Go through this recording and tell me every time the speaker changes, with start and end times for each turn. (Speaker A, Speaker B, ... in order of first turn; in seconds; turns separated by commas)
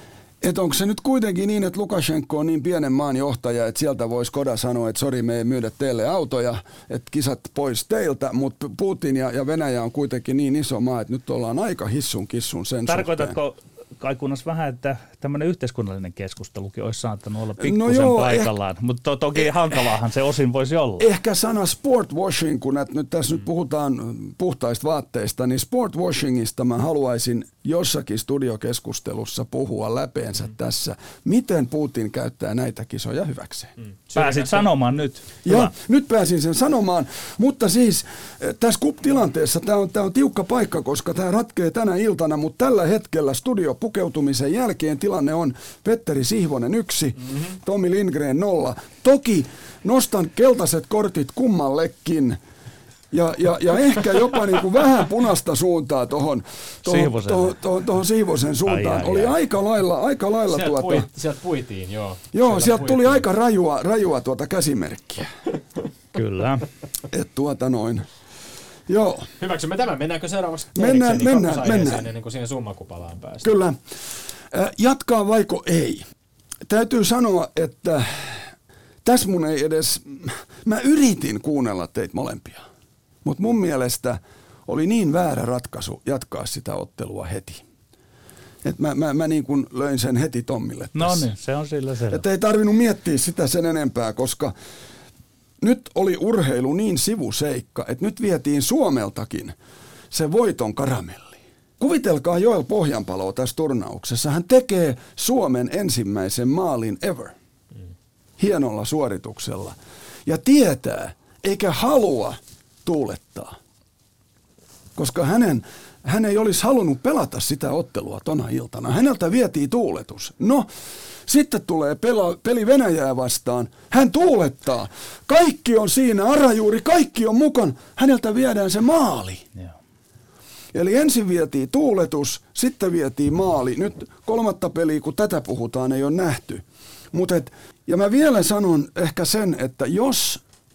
Speaker A: 0.4-13.4, Speaker B: 12.8-21.1, Speaker A: 17.6-18.5, Speaker A: 21.0-33.7, Speaker C: 33.8-34.7, Speaker B: 34.1-35.7, Speaker A: 35.5-52.4, Speaker A: 53.1-61.1, Speaker B: 56.9-57.6, Speaker B: 58.6-59.4, Speaker C: 60.5-63.2, Speaker A: 62.3-65.3, Speaker B: 66.1-66.7, Speaker A: 67.1-68.0, Speaker A: 68.9-69.3, Speaker C: 69.4-73.5, Speaker A: 70.7-72.0, Speaker A: 73.4-73.8, Speaker A: 74.5-76.0, Speaker A: 76.7-78.5, Speaker A: 79.0-82.6, Speaker A: 83.2-87.6, Speaker A: 88.6-91.3, Speaker B: 90.9-92.2, Speaker A: 92.1-94.5, Speaker A: 95.6-99.5, Speaker A: 100.1-107.3, Speaker A: 108.4-113.5, Speaker A: 115.0-120.7, Speaker A: 121.2-129.4, Speaker A: 130.7-140.4